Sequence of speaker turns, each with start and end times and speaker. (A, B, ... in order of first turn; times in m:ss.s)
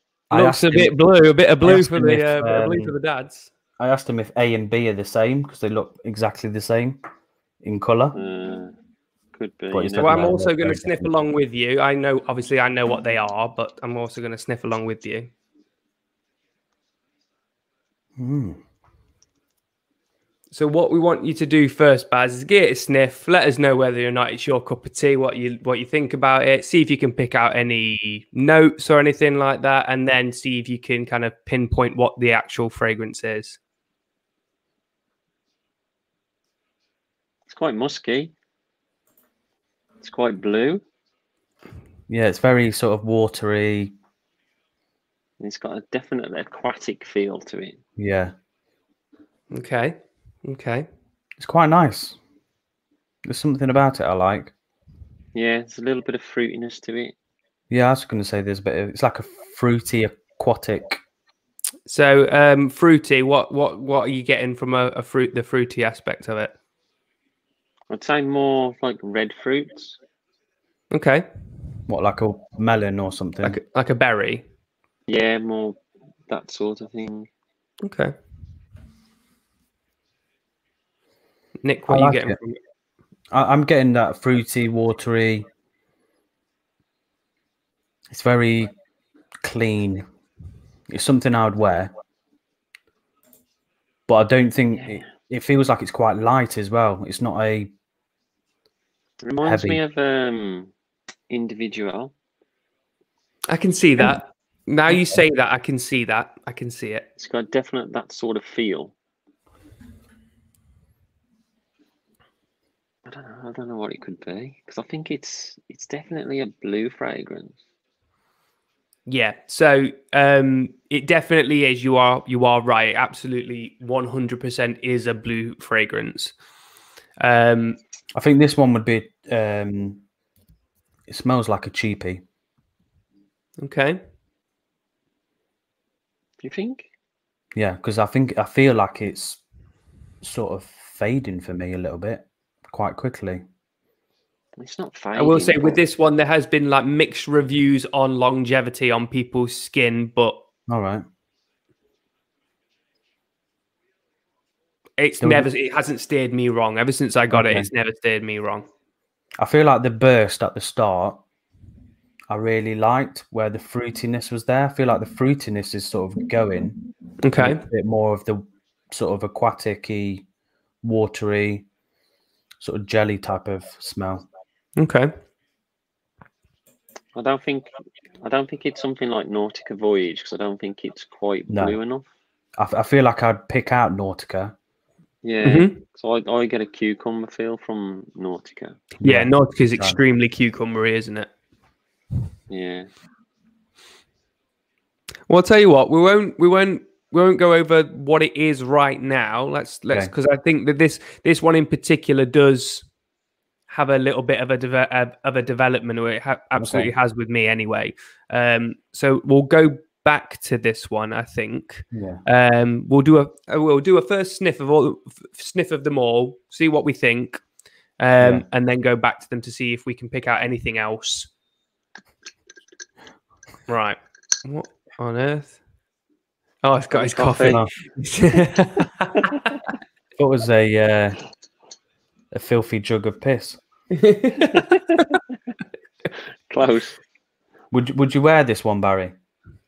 0:00.3-0:01.0 A
0:00.3-0:03.5 B
0:01.6-0:02.9 A
0:03.8-0:07.0 A
0:07.6-0:08.2 A
0:08.2-0:08.7 C
0:09.4-0:10.3 C
0:09.7-0:11.0 A
0:10.0-0:15.3 B
0:18.2-0:18.6 A
0:20.5-0:33.6 B
0:37.5-0:38.3 C
0:40.0-0:40.8 C
0:42.1-0:43.9 A
0:45.4-0:47.8 C
0:48.0-0:48.4 A
0:49.5-0:50.9 B
0:51.4-0:52.2 A
0:53.2-0:54.5 A
0:55.3-0:57.1 C
0:57.7-1:01.0 A
1:01.9-1:06.6 B
1:07.9-1:10.0 C
1:10.9-1:11.3 B
1:11.9-1:13.6 A
1:13.4-1:14.4 B
1:15.1-1:17.3 C
1:17.8-1:18.1 B
1:21.6-1:22.6 B
1:21.9-1:22.4 A
1:23.3-1:25.5 A
1:28.1-1:28.7 A
1:29.4-1:30.1 A
1:30.9-1:31.9 A
1:34.1-1:37.7 A
1:39.2-1:40.7 C
1:39.4-1:39.8 A
1:41.3-1:42.1 C
1:43.5-1:47.0 B
1:44.9-1:45.2 A
1:47.2-1:48.9 C
1:53.1-1:57.6 C
1:59.1-2:06.4 B
2:07.2-2:07.8 B
2:08.1-2:10.0 A
2:11.1-2:12.2 A
2:13.6-2:14.0 B
2:16.4-2:16.9 C
2:17.6-2:19.4 A
2:20.2-2:23.4 A
2:24.6-2:25.8 C
2:25.2-2:30.4 B
2:30.7-2:31.1 A
2:35.0-2:38.7 B
2:35.2-2:35.5 A
2:37.3-2:37.7 A
2:39.4-2:41.2 A
2:42.3-2:46.8 A
2:47.2-2:47.6 B
2:47.4-2:50.2 A
2:50.8-2:51.7 A
2:52.6-2:54.3 A
2:54.8-2:55.1 B
2:57.2-3:02.1 C
3:01.5-3:01.8 A
3:02.6-3:04.6 A
3:05.2-3:08.9 C
3:05.4-3:05.8 B
3:09.0-3:11.3 B
3:09.0-3:10.0 A
3:12.5-3:12.9 C
3:15.3-3:22.9 B
3:23.7-3:37.4 B
3:26.6-3:26.9 A
3:31.9-3:32.2 A
3:38.0-3:41.3 B
3:38.2-3:38.5 A
3:43.7-3:45.6 B
3:46.6-3:49.5 B
3:46.9-3:47.6 C
3:47.5-3:47.7 A
3:50.2-3:51.2 A
3:52.3-3:53.6 A
3:53.9-3:55.2 B
3:56.5-3:57.0 C
3:57.7-3:59.1 A